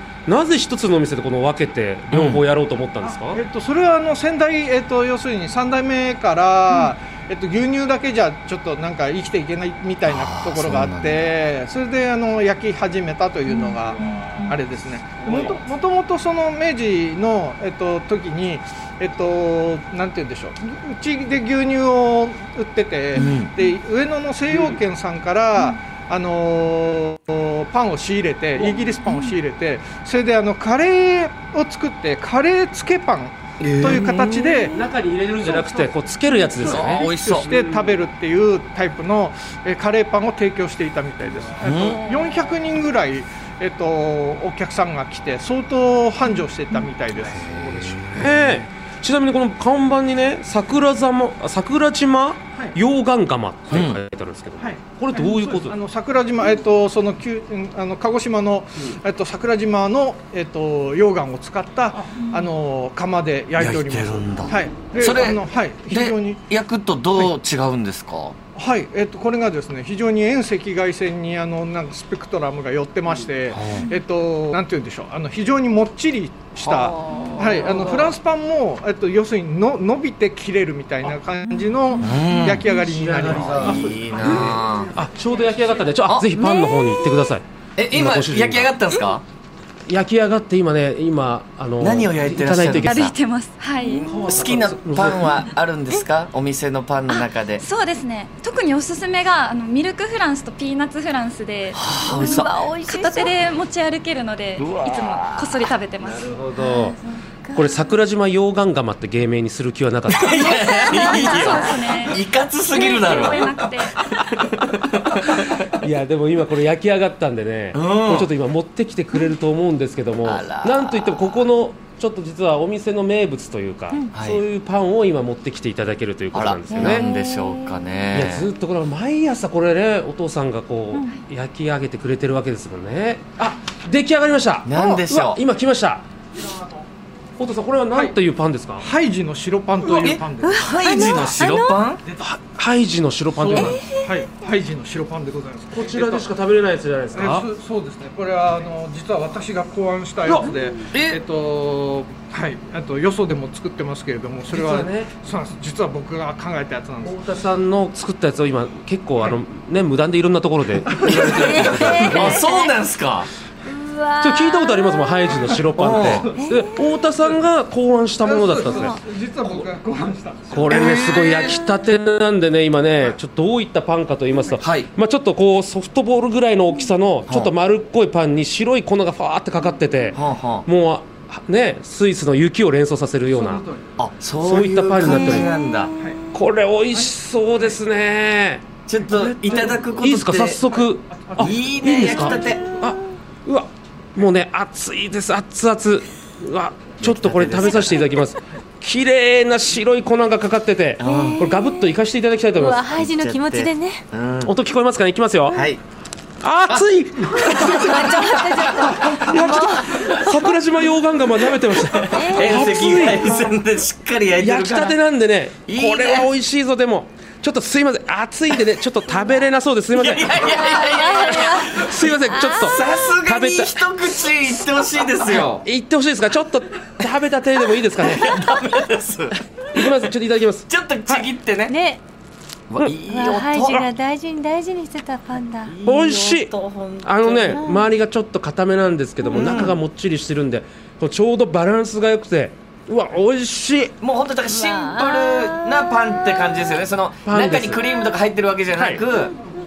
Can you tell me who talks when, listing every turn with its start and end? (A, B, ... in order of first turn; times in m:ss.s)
0:00.3-0:03.4 A
0:02.1-0:02.4 B
0:03.0-0:34.8 C
0:10.0-0:11.3 B
0:13.5-0:13.8 D
0:14.0-0:14.5 A
0:15.2-0:15.6 A
0:23.1-0:23.5 B
0:24.5-0:24.8 A
0:29.0-0:29.3 D
0:33.6-0:34.4 B
0:34.4-0:34.7 D
0:34.7-0:38.0 A
0:35.4-0:48.6 C
0:36.6-0:37.5 B
0:41.6-0:42.0 B
0:47.3-0:48.3 B
0:48.1-0:55.8 A
0:53.7-0:54.0 B
0:54.6-1:06.4 C
1:03.6-1:08.3 B
1:08.5-1:24.0 C
1:13.5-1:13.9 B
1:16.8-1:17.5 D
1:22.0-1:22.6 B
1:22.8-1:28.7 A
1:23.2-1:24.9 B
1:26.3-1:27.2 D
1:27.8-1:29.2 B
1:29.9-1:33.1 A
1:31.8-1:33.2 B
1:32.8-1:34.0 E
1:34.0-1:35.5 A
1:34.0-1:37.6 B
1:37.6-1:46.3 E
1:41.7-1:42.5 B
1:42.0-1:43.3 D
1:44.6-1:45.6 B
1:46.0-1:47.0 A
1:46.5-1:47.9 D
1:47.5-1:50.6 A
1:50.1-1:55.7 B
1:50.4-1:52.0 D
1:50.6-1:54.0 E
1:55.4-2:07.1 A
1:57.7-1:58.3 B
2:00.2-2:01.5 B
2:04.1-2:04.4 B
2:06.3-2:08.5 B
2:06.8-2:08.0 D
2:08.1-2:16.0 A
2:10.9-2:11.2 D
2:14.6-2:15.4 B
2:16.4-2:16.8 C
2:17.4-2:18.9 A
2:18.8-2:21.1 C
2:19.8-2:22.0 B
2:20.4-2:21.8 D
2:22.2-2:23.8 A
2:23.3-2:26.3 C
2:23.6-2:24.2 D
2:25.7-2:27.5 A
2:27.1-2:37.2 C
2:30.2-2:31.2 A
2:34.5-2:35.1 A
2:37.0-2:42.5 A
2:41.0-2:42.7 D
2:41.8-2:43.3 B
2:43.6-2:45.4 D
2:44.2-2:49.6 A
2:45.7-2:46.3 B
2:46.3-2:47.0 D
2:48.2-2:50.9 C
2:50.5-3:03.6 A
2:50.7-2:51.6 B
2:51.1-2:51.7 D
2:54.6-2:54.9 B
3:00.1-3:00.7 B
3:03.4-3:03.8 C
3:04.0-3:05.9 B
3:04.4-3:05.5 A
3:05.1-3:06.2 D
3:06.3-3:22.9 A
3:06.9-3:07.8 C
3:08.9-3:10.6 B
3:11.1-3:12.4 C
3:11.4-3:12.6 B
3:12.5-3:13.0 D
3:17.0-3:18.1 B
3:21.0-3:21.5 B
3:21.0-3:21.9 D
3:22.6-3:24.0 D
3:22.9-3:24.5 B
3:24.4-3:25.6 A
3:25.5-3:25.8 B
3:26.4-3:33.4 A
3:26.7-3:30.6 B
3:27.6-3:29.9 D
3:31.6-3:35.0 B
3:32.1-3:32.7 D
3:34.4-3:43.9 A
3:35.7-3:36.3 B
3:39.9-3:45.6 B
3:40.8-3:42.9 D
3:45.2-3:48.4 A
3:47.9-3:49.9 B
3:49.7-3:51.3 A
3:50.7-3:51.8 B
3:51.7-3:52.0 D
3:52.7-3:53.9 B
3:53.0-3:55.7 D
3:55.7-3:57.6 B
3:55.8-3:56.5 A
3:57.0-4:03.9 A
3:57.6-3:57.8 D
3:59.2-3:59.8 B
4:04.0-4:09.3 B
4:04.4-4:06.4 D
4:07.2-4:07.8 A
4:08.7-4:09.0 A